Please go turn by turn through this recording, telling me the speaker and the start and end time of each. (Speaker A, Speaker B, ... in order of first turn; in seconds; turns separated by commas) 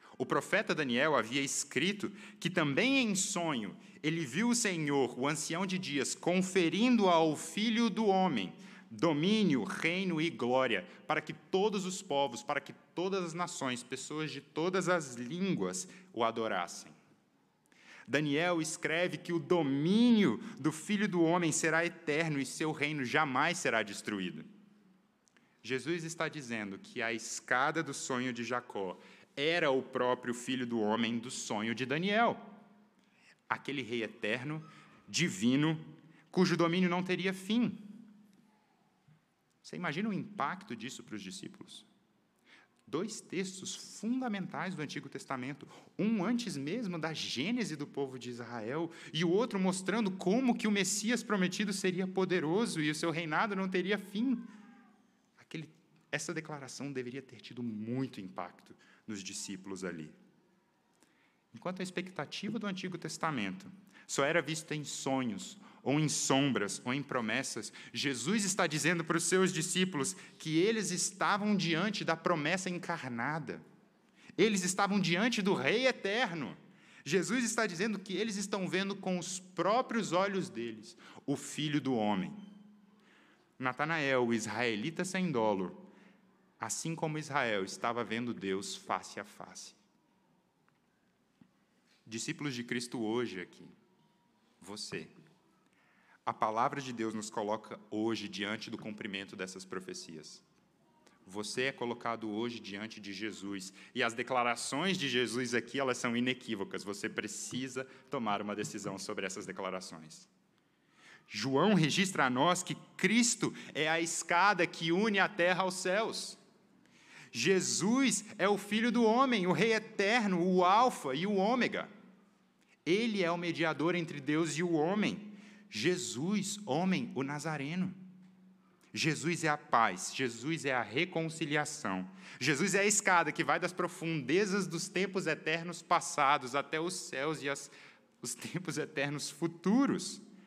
Speaker A: 0.2-17.0, Speaker A: 18.1-24.5, Speaker A: 25.6-32.5, Speaker A: 33.5-38.1, Speaker A: 39.6-41.9, Speaker A: 42.9-54.5, Speaker A: 55.4-60.1, Speaker A: 61.5-73.6, Speaker A: 74.4-82.4, Speaker A: 83.6-85.9, Speaker A: 86.6-89.8, Speaker A: 92.0-93.7, Speaker A: 94.6-95.1, Speaker A: 96.2-100.4, Speaker A: 101.2-110.3, Speaker A: 111.3-116.4, Speaker A: 117.3-121.9, Speaker A: 122.8-128.0, Speaker A: 128.9-140.2